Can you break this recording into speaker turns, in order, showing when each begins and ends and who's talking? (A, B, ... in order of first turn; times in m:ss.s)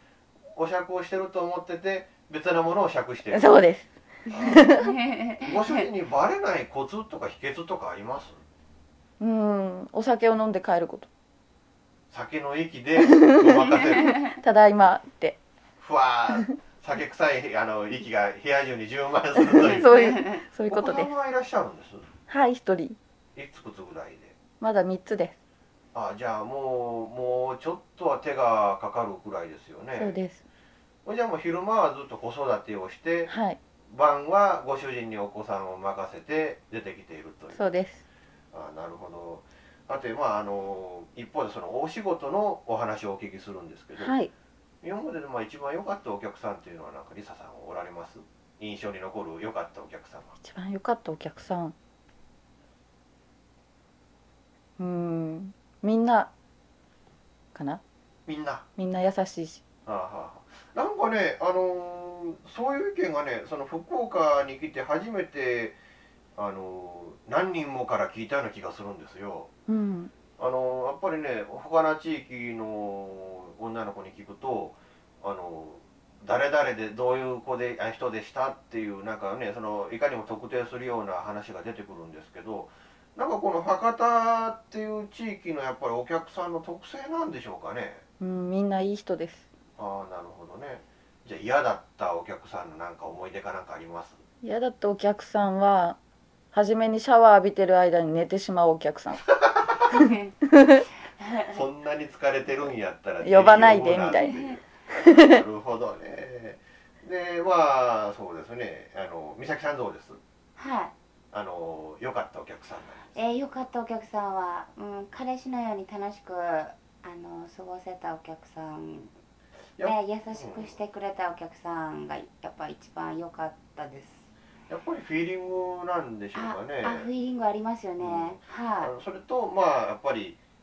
0:00.6-0:03.5 A
0:03.3-0:03.9 B
0:04.3-0:04.7 A
0:04.4-0:05.8 C
0:04.5-0:04.9 B
0:05.4-0:08.4 A
0:09.2-0:11.1 B
0:12.1-0:14.3 A
0:13.0-0:15.4 B
0:15.8-0:20.1 A
0:19.4-0:21.1 B
0:19.8-0:20.4 C
0:20.7-0:22.1 A
0:22.3-0:23.0 B
0:23.4-0:24.4 A
0:24.6-0:25.4 B
0:25.9-0:30.2 A
0:30.0-0:30.4 B
0:31.0-0:33.3 A
0:33.3-0:33.6 B
0:33.9-0:37.6 A
0:37.5-0:38.0 B
0:38.5-0:44.1 A
0:44.0-0:44.3 B
0:44.8-0:50.3 A
0:50.4-0:51.8 B
0:54.8-0:56.3 B
0:57.6-0:57.8 B
0:58.3-0:58.7 A
0:58.8-0:59.6 B
0:59.9-1:05.8 A
1:06.4-1:09.5 A
1:09.7-1:10.1 B
1:10.4-1:28.0 A
1:28.2-1:29.5 B
1:29.8-1:34.2 A
1:34.4-1:36.0 B
1:36.5-1:39.2 B
1:39.9-1:40.3 C
1:40.5-1:40.8 B
1:41.2-1:41.5 C
1:41.5-1:50.2 A
1:43.2-1:44.4 B
1:44.9-1:45.4 B
1:50.6-1:50.9 C
1:51.3-1:53.2 A
1:53.2-1:59.1 C
1:59.8-2:00.8 A
1:59.8-2:04.3 C
2:04.7-2:07.1 A
2:06.4-2:08.9 C
2:08.0-2:10.4 A